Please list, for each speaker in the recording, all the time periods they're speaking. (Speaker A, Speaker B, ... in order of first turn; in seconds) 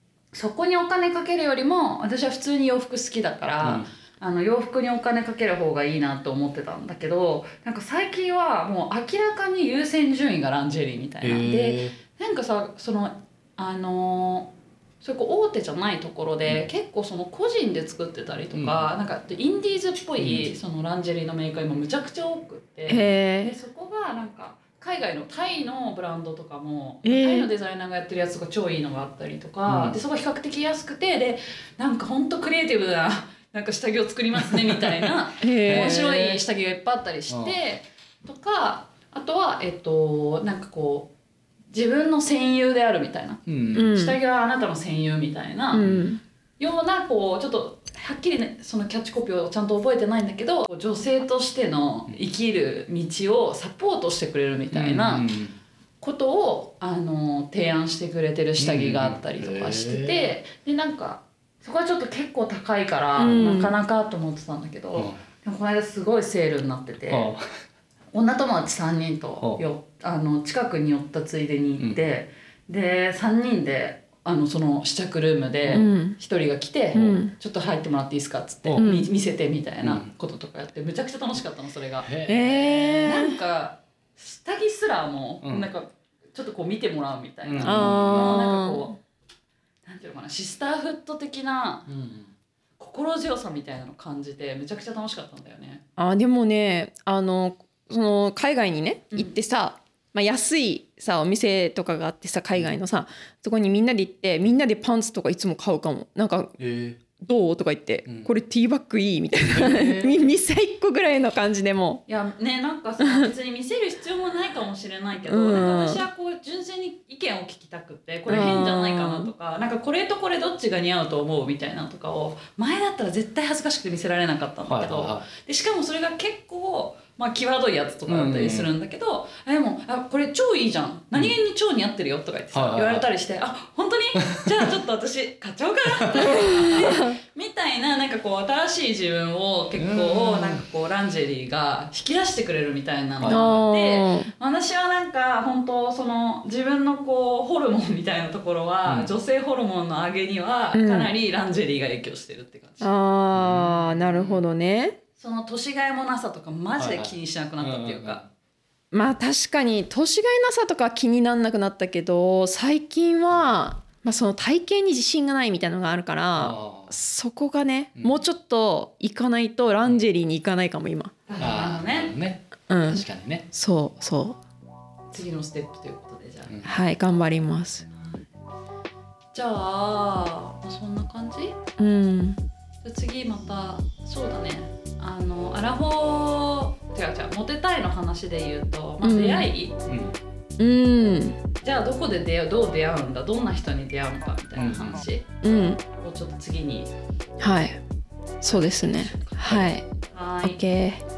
Speaker A: 0.3-41.1, 41.7-45.9, 46.6-55.3, 56.0-67.3, 68.1-89.0, 89.8-91.9, 92.8-95.8, 112.1-152.9, 155.2-158.2, 171.3-172.1, 175.1-176.5, 177.9-178.2, 179.3-181.6, 182.8-189.8, 191.6-195.2, 196.0-196.9, 198.6-199.4, 200.1-200.6
Speaker B: 3.6-3.9, 11.2-11.9, 18.5-18.9, 20.2-20.5, 29.7-30.0, 34.4-35.1, 35.6-36.0, 37.3-37.5, 43.5-43.9, 45.8-46.1, 54.7-55.5, 58.6-60.2, 67.1-67.4, 79.8-80.1, 82.0-82.5, 85.4-85.7, 87.4-88.4, 91.9-92.3, 106.6-107.0, 109.4-110.3, 124.7-125.3, 128.1-128.7, 132.5-133.1, 134.2-134.7, 136.0-136.9, 139.8-140.6, 143.2-143.6, 148.8-149.1, 153.3-154.4, 156.8-158.2, 166.3-167.0, 167.9-168.2, 171.4-173.5, 176.5-176.8, 189.9-190.2, 194.5-195.0, 199.4-199.7
Speaker C: 22.9-23.5, 27.0-27.5, 35.4-36.4, 43.7-44.2, 45.7-46.2, 63.2-63.7, 75.7-76.2, 77.0-77.3, 78.8-79.1, 82.2-83.4, 87.6-88.9, 96.0-106.5, 107.2-112.0, 113.0-113.3, 115.3-116.0, 118.3-119.3, 136.6-137.2, 143.2-144.3, 150.7-151.1, 152.8-155.0, 158.9-171.1, 172.7-174.4, 176.6-177.9, 181.8-182.4, 189.0-189.5, 190.6-191.4, 195.4-195.8, 197.4-197.8, 198.4-199.8, 200.4-201.0